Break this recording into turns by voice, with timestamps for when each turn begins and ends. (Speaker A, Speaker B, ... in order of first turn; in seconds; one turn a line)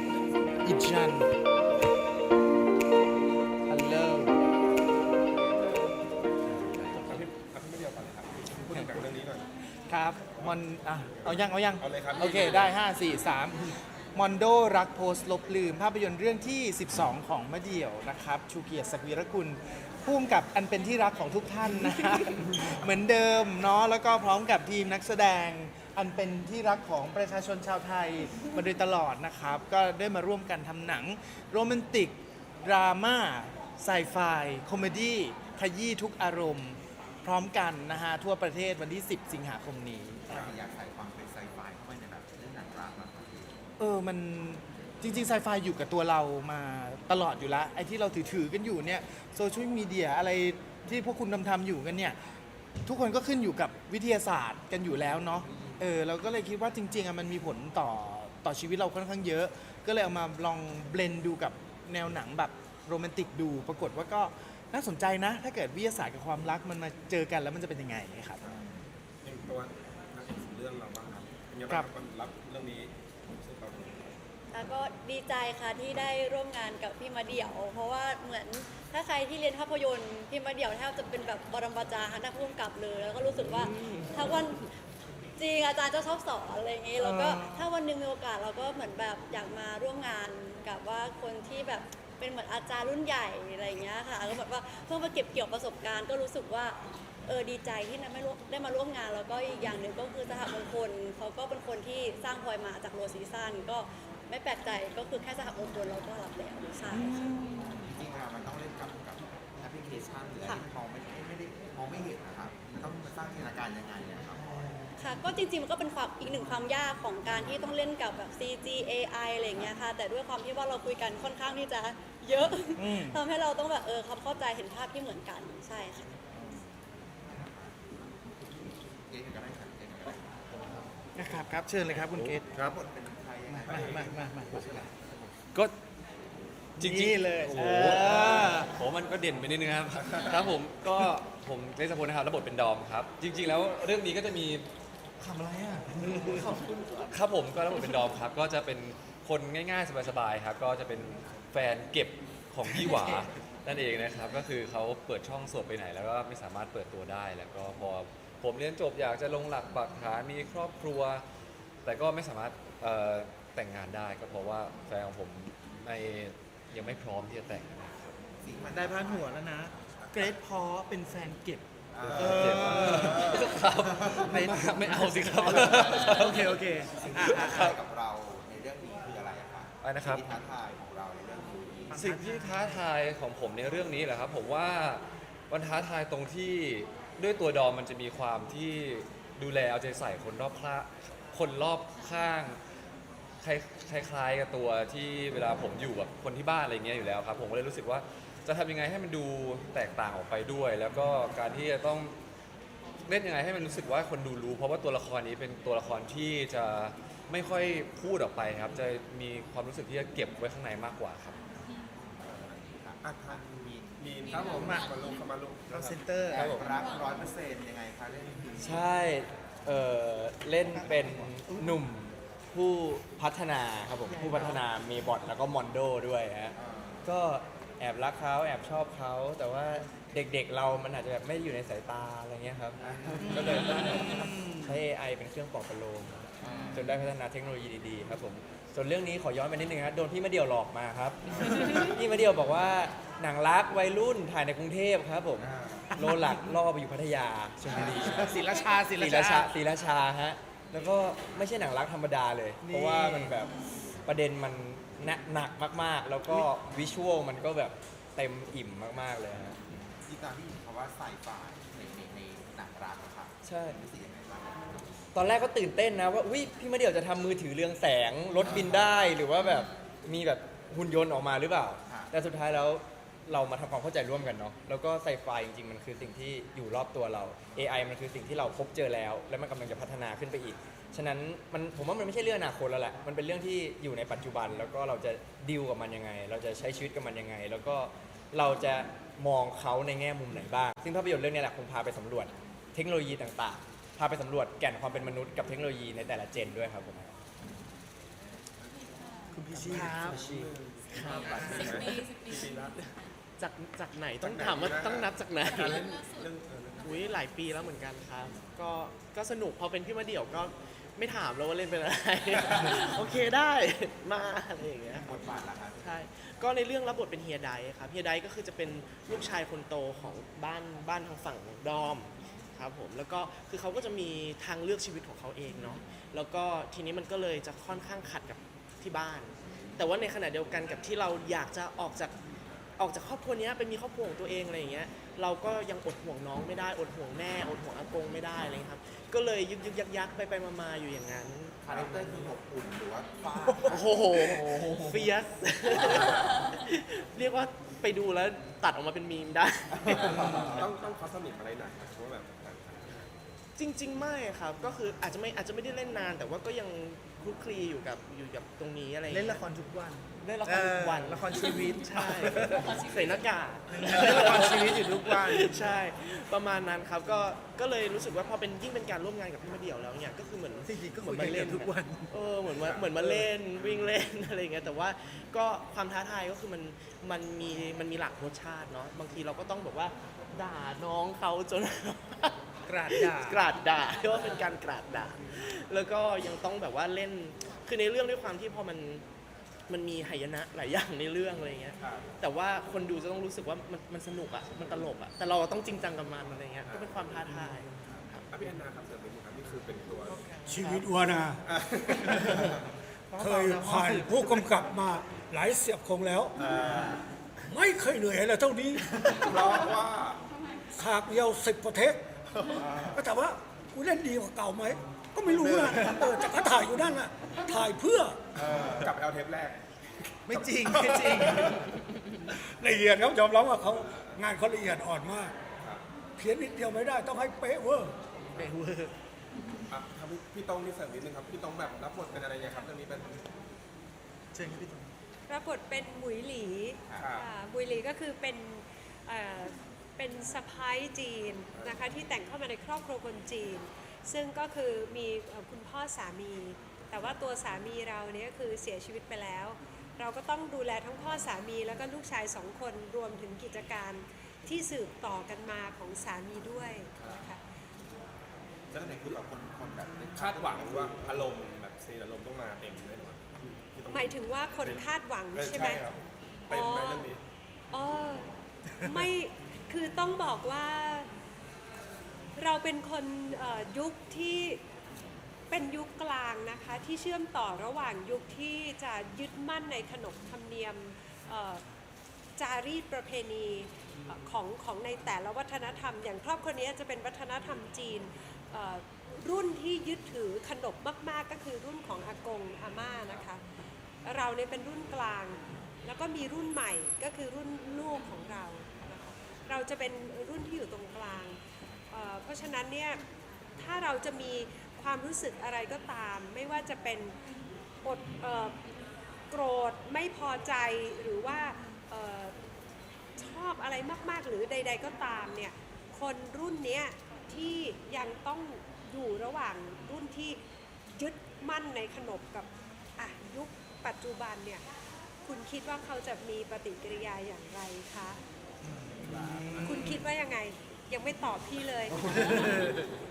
Speaker A: 0.6-1.3
Speaker A: 3.7-4.3
Speaker B: 6.9-9.4
Speaker A: 8.6-9.1
Speaker A: 9.9-40.4
Speaker B: 10.3-12.8
Speaker C: 40.3-43.5
Speaker A: 43.8-52.2
Speaker A: 52.9-68.4
Speaker B: 69.2-74.1
Speaker D: 74.5-84.7
Speaker E: 83.4-84.3
Speaker D: 85.4-96.8
Speaker A: 87.0-87.6
Speaker D: 97.3-107.2
Speaker A: 107.0-107.7
Speaker C: 107.8-114.7
Speaker D: 115.0-126.2
Speaker A: 122.8-123.2
Speaker C: 126.3-126.7
Speaker C: 127.3-127.8
Speaker C: 128.4-130.7
Speaker A: 131.2-132.4
Speaker F: 132.3-132.7
Speaker C: 132.5-135.3
Speaker A: 133.5-134.6
Speaker B: 133.6-134.8
Speaker A: 136.8-138.7
Speaker F: 136.8-144.7
Speaker E: 137.6-138.5
Speaker A: 145.2-146.6
Speaker F: 147.1-161.2
Speaker A: 152.7-153.2
Speaker F: 161.8-168.2
Speaker C: 168.4-169.6
Speaker A: 168.7-171.6
Speaker B: 170.0-170.3
Speaker C: 171.9-174.4
Speaker F: 172.0-176.7
Speaker A: 172.1-173.4
Speaker A: 174.2-177.8
Speaker C: 175.6-176.2
Speaker C: 176.9-182.0
Speaker F: 177.2-177.7
Speaker F: 179.8-180.2
Speaker A: 181.9-182.8
Speaker F: 181.9-192.6
Speaker F: 193.4-202.1
Speaker F: 203.0-211.4
Speaker C: 211.9-214.7
Speaker B: 213.0-216.7
Speaker A: 214.6-214.9
Speaker A: 215.7-216.5
Speaker C: 216.4-218.9
Speaker G: 218.6-232.8
Speaker C: 220.6-221.3
Speaker E: 224.1-224.6
Speaker C: 224.2-224.5
Speaker C: 226.5-227.0
Speaker C: 232.8-234.0
Speaker A: 233.2-234.8
Speaker G: 233.3-248.3
Speaker B: 233.6-234.0
Speaker C: 236.4-237.0
Speaker C: 241.5-241.9
Speaker C: 245.4-245.9
Speaker A: 245.9-246.5
Speaker C: 247.7-248.5
Speaker A: 248.1-249.6
Speaker G: 249.0-253.5
Speaker A: 252.6-253.5
Speaker G: 254.1-259.6
Speaker C: 260.0-265.1
Speaker G: 263.4-263.8
Speaker G: 265.1-297.1
Speaker C: 268.4-269.0
Speaker C: 271.9-272.1
Speaker A: 299.3-300.5
Speaker B: 299.7-302.7
Speaker E: 300.9-305.9
Speaker B: 304.2-307.1
Speaker E: 306.8-332.1
Speaker C: 314.9-316.0
Speaker E: 332.8-342.3
Speaker C: 341.6-345.1
Speaker E: 343.3-350.5
Speaker C: 349.7-350.7
Speaker B: 349.9-352.9
Speaker E: 353.6-359.5
Speaker A: 359.1-362.8
Speaker E: 360.2-389.0
Speaker A: 363.7-365.6
Speaker A: 370.6-372.2
Speaker B: 372.6-373.7
Speaker A: 382.7-383.4
Speaker E: 389.7-398.2
Speaker B: 391.8-392.1
Speaker B: 396.6-397.1
Speaker B: 398.3-400.3
Speaker A: 400.1-400.3
Speaker H: 400.4-401.4
Speaker E: 400.5-400.9
Speaker B: 401.4-402.4
Speaker A: 402.1-402.5
Speaker A: 403.1-404.7
Speaker H: 403.1-406.3
Speaker B: 406.4-407.0
Speaker H: 407.5-409.3
Speaker B: 409.2-410.2
Speaker H: 410.8-412.0
Speaker H: 412.6-418.2
Speaker B: 415.2-416.1
Speaker B: 418.3-419.6
Speaker A: 420.3-421.6
Speaker B: 420.3-421.6
Speaker H: 422.4-425.3
Speaker H: 426.2-427.9
Speaker A: 428.4-428.8
Speaker B: 429.7-433.2
Speaker A: 434.3-434.9
Speaker I: 435.3-457.4
Speaker C: 436.9-437.2
Speaker B: 436.9-437.3
Speaker B: 441.5-442.0
Speaker B: 456.9-457.3
Speaker C: 458.7-461.3
Speaker B: 458.7-459.2
Speaker B: 460.1-466.0
Speaker I: 463.9-465.8
Speaker B: 466.5-467.2
Speaker I: 466.6-467.1
Speaker I: 467.7-468.3
Speaker I: 468.9-471.1
Speaker I: 472.4-474.6
Speaker I: 475.5-481.6
Speaker I: 482.4-493.4
Speaker I: 494.0-501.4
Speaker I: 501.9-503.0
Speaker I: 503.6-507.1
Speaker I: 507.8-508.5
Speaker I: 509.3-512.3
Speaker I: 513.2-520.4
Speaker I: 521.0-524.6
Speaker I: 525.2-528.2
Speaker A: 528.6-530.1
Speaker C: 529.0-529.5
Speaker I: 529.6-531.9
Speaker C: 532.0-532.8